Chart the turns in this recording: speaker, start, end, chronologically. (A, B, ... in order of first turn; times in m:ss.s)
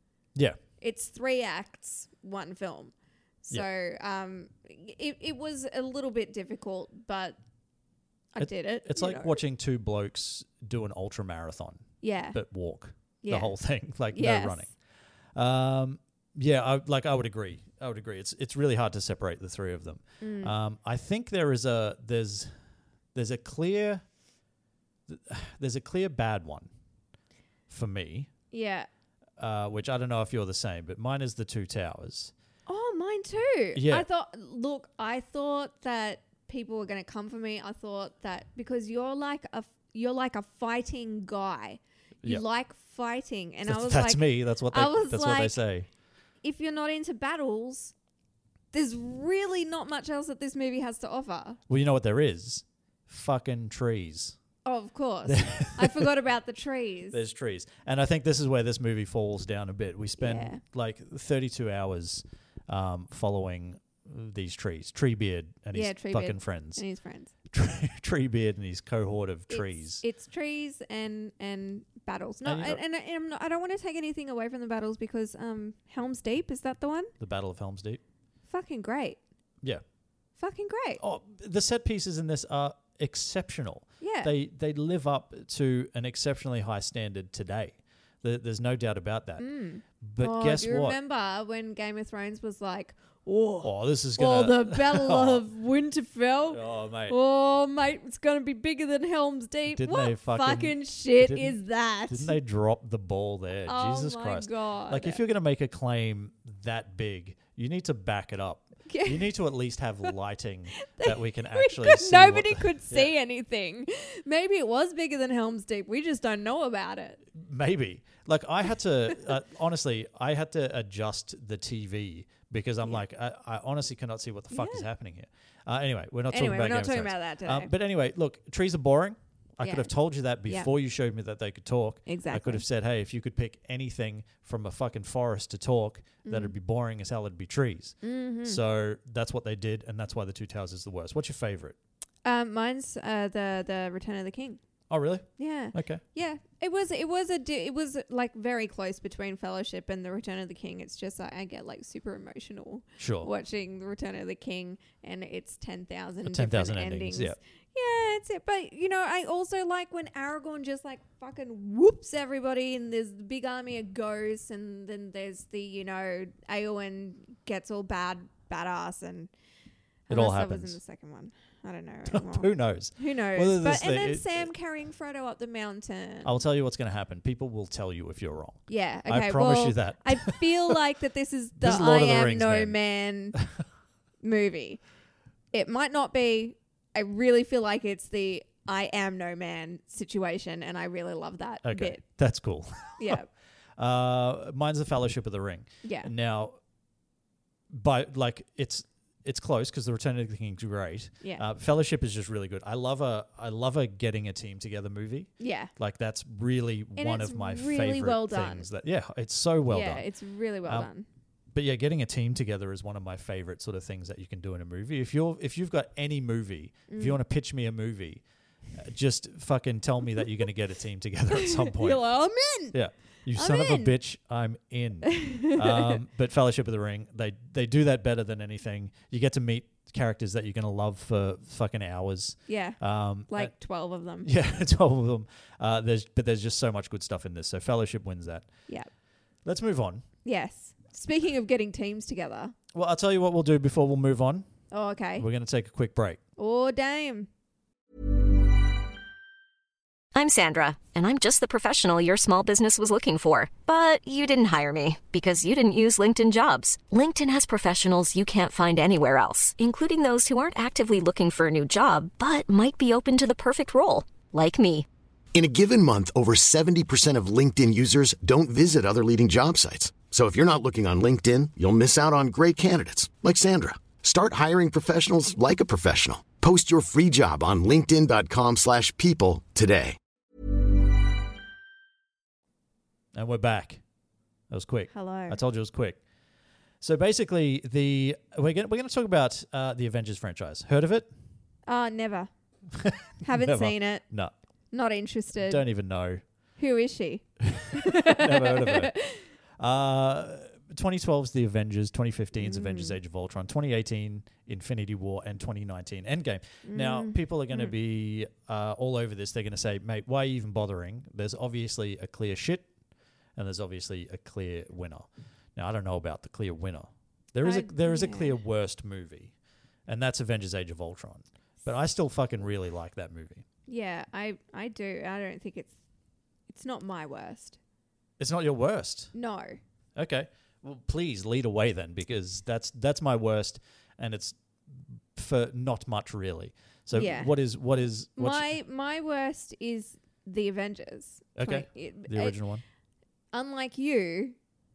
0:00.8-0:07.4 A
0:08.3-0:09.4 A
0:08.4-0:14.8 B
0:12.0-0:12.4 A
0:13.2-0:13.6 A
0:14.1-0:14.7 A
0:15.4-0:22.5 B
0:20.2-0:20.6 A
0:23.1-0:24.0 B
0:25.1-0:26.7 B
0:27.7-0:28.3 B
0:28.5-0:28.9 A
0:29.4-0:32.3 B
0:32.7-0:45.6 A
0:33.7-0:34.1 B
0:43.7-0:45.9 B
0:46.4-0:47.9 A
0:48.7-0:51.6 A
0:51.7-0:54.4 B
0:54.6-0:57.2 A
0:55.3-0:56.1 B
0:57.1-1:06.8 B
1:00.2-1:00.6 A
1:05.7-1:07.3 A
1:07.5-1:10.0 B
1:09.5-1:17.1 A
1:12.4-1:12.8 B
1:17.2-1:18.0 B
1:18.5-1:19.2 A
1:20.4-1:21.0 A
1:21.0-1:29.4 B
1:24.0-1:24.3 A
1:29.4-1:42.4 A
1:30.0-1:31.0 B
1:33.6-1:35.4 B
1:36.5-1:37.2 B
1:39.7-1:41.6 B
1:42.1-1:53.1 B
1:43.7-1:45.2 A
1:48.9-1:49.3 A
1:50.8-1:57.2 A
1:57.4-2:21.8 B
2:04.5-2:04.9 A
2:06.3-2:07.7 A
2:09.6-2:09.9 A
2:12.1-2:12.6 A
2:16.2-2:16.6 A
2:18.0-2:18.6 A
2:22.2-2:24.6 A
2:24.9-2:26.0 B
2:25.4-2:49.3 A
2:33.0-2:33.3 B
2:36.2-2:37.4 B
2:50.1-2:56.3 A
2:50.1-2:50.8 B
2:52.1-2:54.5 B
2:56.2-3:00.8 B
2:58.7-3:03.4 A
3:01.6-3:02.8 B
3:04.2-3:04.8 A
3:05.5-3:12.0 A
3:11.6-3:13.2 B
3:13.0-3:13.3 A
3:13.8-3:16.6 B
3:15.8-3:16.1 A
3:17.7-3:30.0 B
3:25.4-3:25.7 A
3:27.0-3:28.7 A
3:29.7-3:31.1 A
3:31.5-3:38.2 B
3:36.9-3:37.2 A
3:38.8-3:42.0 B
3:41.3-3:42.8 A
3:42.7-3:53.5 B
3:43.4-3:43.9 A
3:45.0-3:46.0 A
3:52.5-3:54.3 A
3:54.2-3:58.5 B
3:59.4-4:00.0 B
4:00.2-4:02.6 A
4:02.7-4:04.5 B
4:04.7-4:05.3 A
4:05.2-4:06.2 B
4:06.4-4:07.3 A
4:10.1-4:24.9 C
4:25.3-4:40.0 D
4:43.1-4:43.8 B
4:44.5-4:46.0 B
4:44.9-4:45.4 A
4:46.8-4:51.1 B
4:51.7-4:52.3 A
4:52.7-4:54.3 B
4:53.2-4:54.0 A
4:54.7-4:55.7 A
4:55.4-4:56.2 B
4:56.6-4:59.2 A
4:57.5-4:59.0 B
4:59.6-5:12.7 B
5:02.4-5:03.0 A
5:06.6-5:07.7 A
5:13.4-5:19.3 B
5:17.4-5:18.4 A
5:19.9-5:23.4 B
5:23.7-5:25.8 A
5:26.5-5:27.6 A
5:28.2-5:29.1 B
5:29.1-5:29.6 A
5:30.0-5:38.5 B
5:36.9-5:37.3 A
5:38.2-5:42.4 A
5:41.4-5:42.6 B
5:43.3-5:44.4 A